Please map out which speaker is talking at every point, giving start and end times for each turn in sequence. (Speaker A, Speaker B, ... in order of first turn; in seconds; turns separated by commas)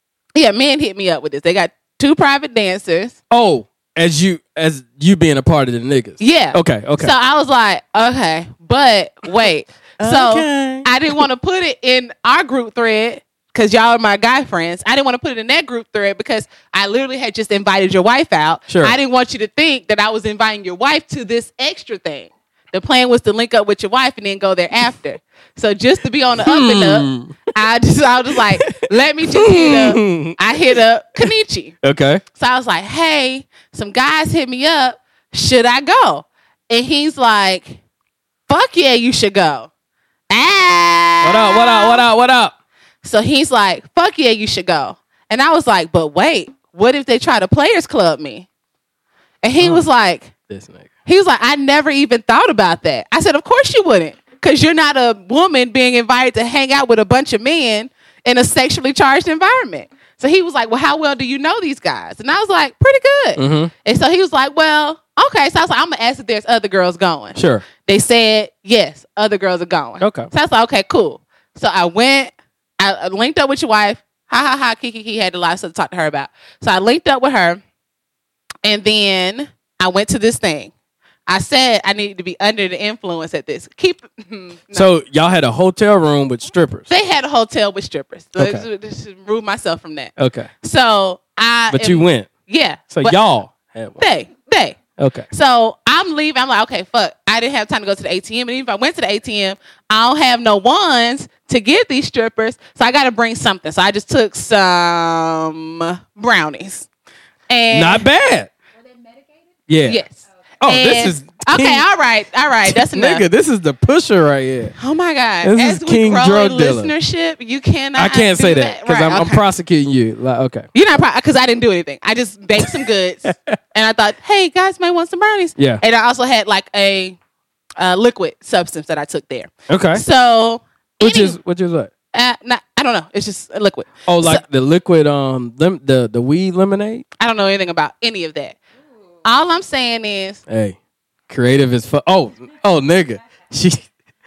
Speaker A: 0.3-3.2, Speaker B: 3.3-7.1, Speaker A: 6.2-31.8, Speaker B: 10.0-11.2, Speaker B: 18.7-19.0, Speaker B: 26.4-27.4, Speaker B: 28.4-30.4, Speaker B: 31.8-32.2, Speaker A: 32.4-37.8, Speaker A: 38.5-39.7, Speaker A: 40.3-42.0, Speaker B: 41.2-42.5, Speaker A: 43.0-48.5, Speaker A: 49.4-50.3, Speaker B: 49.6-49.9, Speaker B: 50.5-50.9, Speaker A: 51.1-77.6, Speaker B: 63.4-63.7, Speaker B: 67.3-67.7, Speaker B: 70.0-70.3, Speaker A: 78.7-80.7, Speaker A: 81.3-84.9, Speaker B: 84.7-86.9, Speaker A: 86.9-93.2, Speaker B: 88.4-88.7, Speaker B: 90.2-90.5, Speaker B: 91.7-92.3, Speaker B: 92.9-94.0, Speaker A: 94.0-94.8, Speaker B: 95.0-95.3, Speaker A: 95.3-106.9, Speaker A: 107.5-108.0, Speaker B: 107.7-108.5, Speaker B: 109.7-110.0, Speaker A: 109.9-113.2, Speaker B: 110.6-111.9, Speaker B: 112.7-114.7, Speaker A: 114.8-119.4, Speaker B: 115.4-116.9, Speaker B: 118.0-120.7, Speaker A: 120.7-127.2, Speaker B: 123.2-123.6, Speaker B: 125.6-125.8, Speaker A: 127.8-131.4, Speaker B: 129.7-130.0, Speaker B: 131.0-131.9, Speaker A: 132.1-134.4, Speaker B: 134.1-137.1, Speaker A: 137.2-138.6, Speaker A: 139.2-140.4, Speaker B: 140.5-140.8, Speaker B: 141.3-143.9